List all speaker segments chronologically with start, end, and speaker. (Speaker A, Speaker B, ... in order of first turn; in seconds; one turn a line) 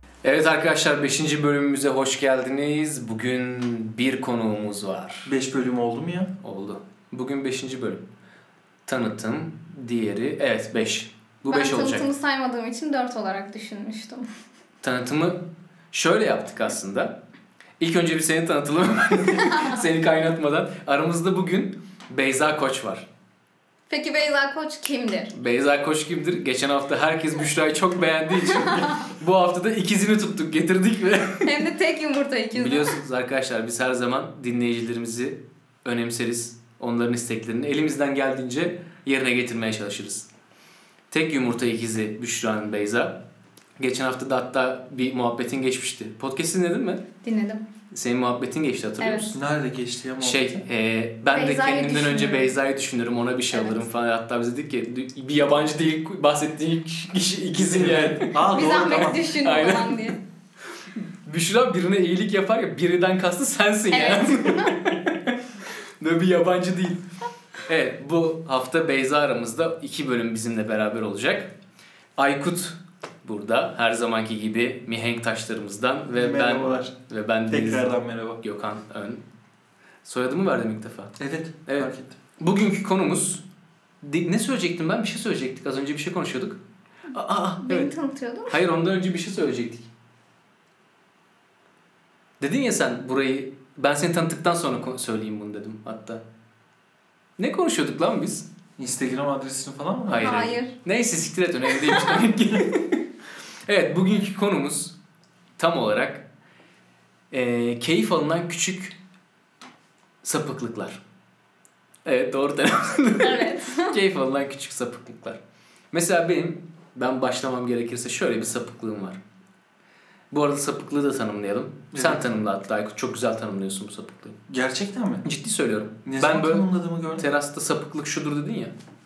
Speaker A: 0.2-5.3
Speaker B: 5.2-6.3
Speaker A: 6.4-8.0
Speaker A: 8.9-12.1
Speaker C: 11.5-14.3
Speaker A: 14.8-17.2
Speaker A: 17.8-23.1
Speaker C: 23.9-25.3
Speaker A: 25.3-31.6
Speaker C: 31.4-33.0
Speaker A: 32.5-40.3
Speaker A: 41.1-43.2
Speaker A: 43.8-47.0
Speaker C: 47.2-47.6
Speaker A: 47.9-49.4
Speaker C: 49.0-49.3
Speaker B: 49.3-50.6
Speaker A: 50.2-58.4
Speaker C: 51.3-52.5
Speaker C: 53.5-53.8
Speaker B: 57.5-59.4
Speaker C: 58.4-60.2
Speaker A: 59.4-60.2
Speaker A: 61.0-65.4
Speaker C: 63.9-64.8
Speaker A: 66.0-67.0
Speaker A: 67.7-71.5
Speaker A: 72.2-79.2
Speaker B: 76.1-77.0
Speaker B: 77.5-78.4
Speaker A: 80.0-83.4
Speaker B: 81.2-82.2
Speaker A: 84.0-86.6
Speaker A: 87.1-87.9
Speaker C: 87.6-88.6
Speaker A: 88.5-89.9
Speaker A: 92.4-96.2
Speaker A: 97.4-98.5
Speaker B: 98.8-100.4
Speaker A: 100.1-103.0
Speaker C: 100.2-100.7
Speaker A: 103.7-105.0
Speaker A: 105.6-106.3
Speaker A: 107.3-109.0
Speaker A: 110.2-111.0
Speaker A: 112.0-115.4
Speaker C: 113.2-113.9
Speaker A: 115.9-119.2
Speaker A: 120.3-124.4
Speaker B: 121.9-122.3
Speaker B: 124.5-125.3
Speaker A: 125.2-128.7
Speaker B: 126.1-127.3